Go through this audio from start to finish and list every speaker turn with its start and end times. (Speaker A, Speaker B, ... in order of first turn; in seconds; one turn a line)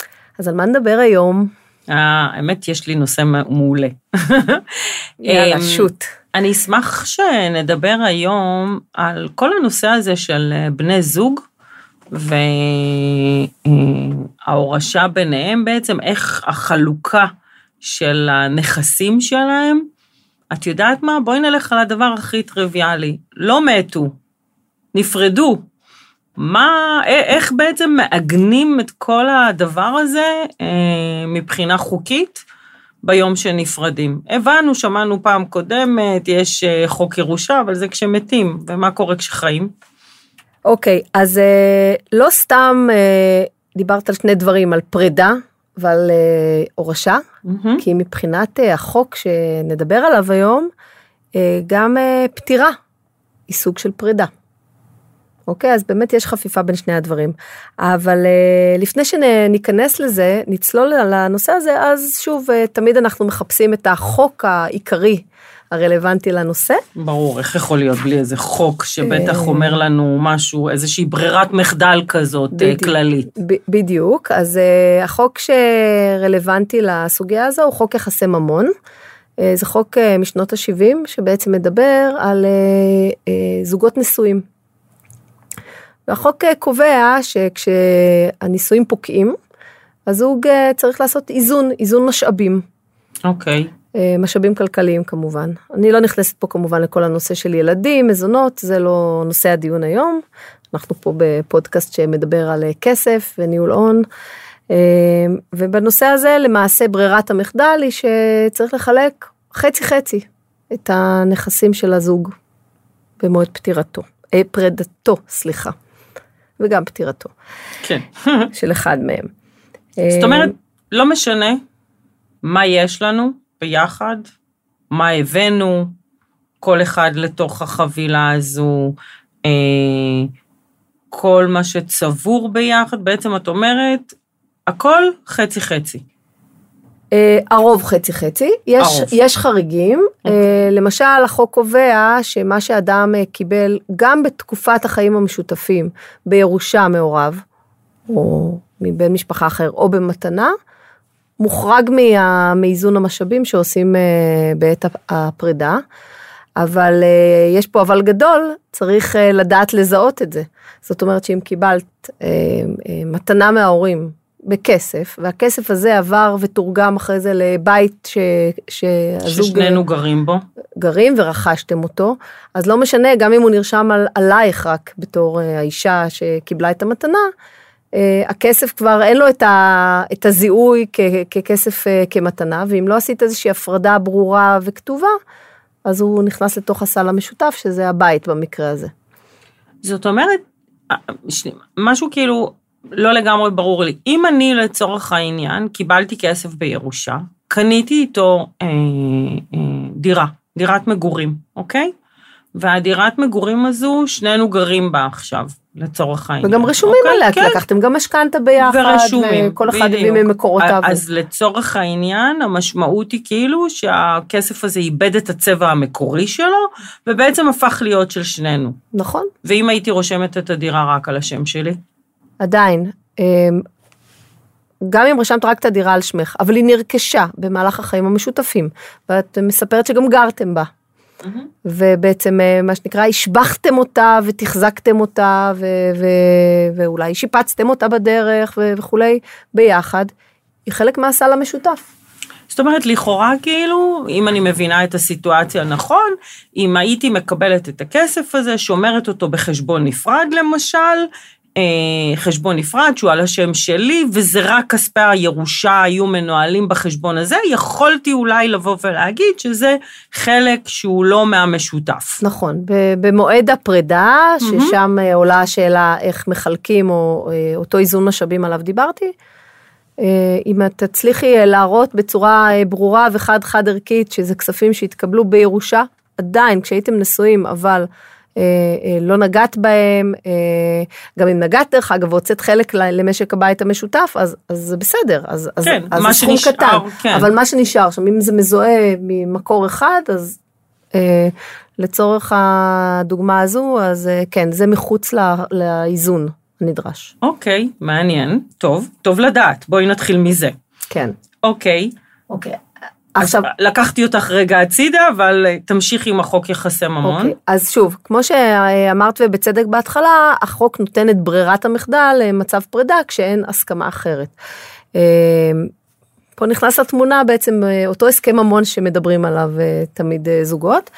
Speaker A: 0.4-1.5
Speaker B: 1.9-11.4
Speaker A: 5.2-6.1
Speaker B: 12.1-17.3
Speaker B: 17.8-19.9
Speaker B: 20.5-24.1
Speaker B: 24.9-25.6
Speaker B: 26.4-32.4
Speaker B: 33.0-39.7
Speaker A: 40.6-47.2
Speaker B: 47.5-47.8
Speaker A: 47.8-50.7
Speaker A: 51.3-52.7
Speaker A: 53.5-54.3
Speaker A: 55.5-66.8
Speaker B: 67.0-73.3
Speaker A: 69.0-69.8
Speaker A: 72.5-78.7
Speaker A: 79.4-84.4
Speaker A: 86.1-89.4
Speaker A: 90.1-92.6
Speaker B: 93.2-93.7
Speaker A: 93.9-104.0
Speaker A: 104.7-112.3
Speaker A: 113.2-115.7
Speaker A: 116.6-117.3
Speaker B: 117.8-118.5
Speaker A: 118.5-119.3
Speaker A: 120.0-120.5
Speaker B: 120.1-121.6
Speaker B: 122.4-124.3
Speaker B: 124.9-125.9
Speaker B: 126.6-130.3
Speaker B: 131.1-134.1
Speaker B: 134.7-136.0
Speaker A: 137.1-147.4
Speaker B: 138.8-139.1
Speaker A: 148.1-150.5
Speaker A: 151.4-155.8
Speaker A: 156.6-169.8
Speaker B: 169.2-170.4
Speaker A: 170.8-177.3
Speaker A: 177.9-185.1
Speaker A: 185.8-188.9
Speaker B: 189.8-201.9
Speaker B: 202.5-207.6
Speaker A: 206.4-211.0
Speaker B: 208.6-218.8
Speaker A: 218.9-219.3
Speaker B: 219.4-221.8
Speaker A: 222.4-223.6
Speaker A: 224.8-230.7
Speaker A: 231.6-240.1
Speaker A: 240.7-241.8
Speaker B: 242.5-262.2
Speaker A: 262.2-269.1
Speaker B: 264.4-264.8
Speaker A: 270.0-290.4
Speaker B: 285.6-287.3
Speaker A: 290.9-297.1
Speaker B: 297.2-300.6
Speaker B: 301.4-301.9
Speaker A: 302.3-302.6
Speaker A: 303.1-303.5
Speaker B: 303.2-307.3
Speaker A: 307.0-314.3
Speaker A: 314.9-315.7
Speaker A: 316.4-320.9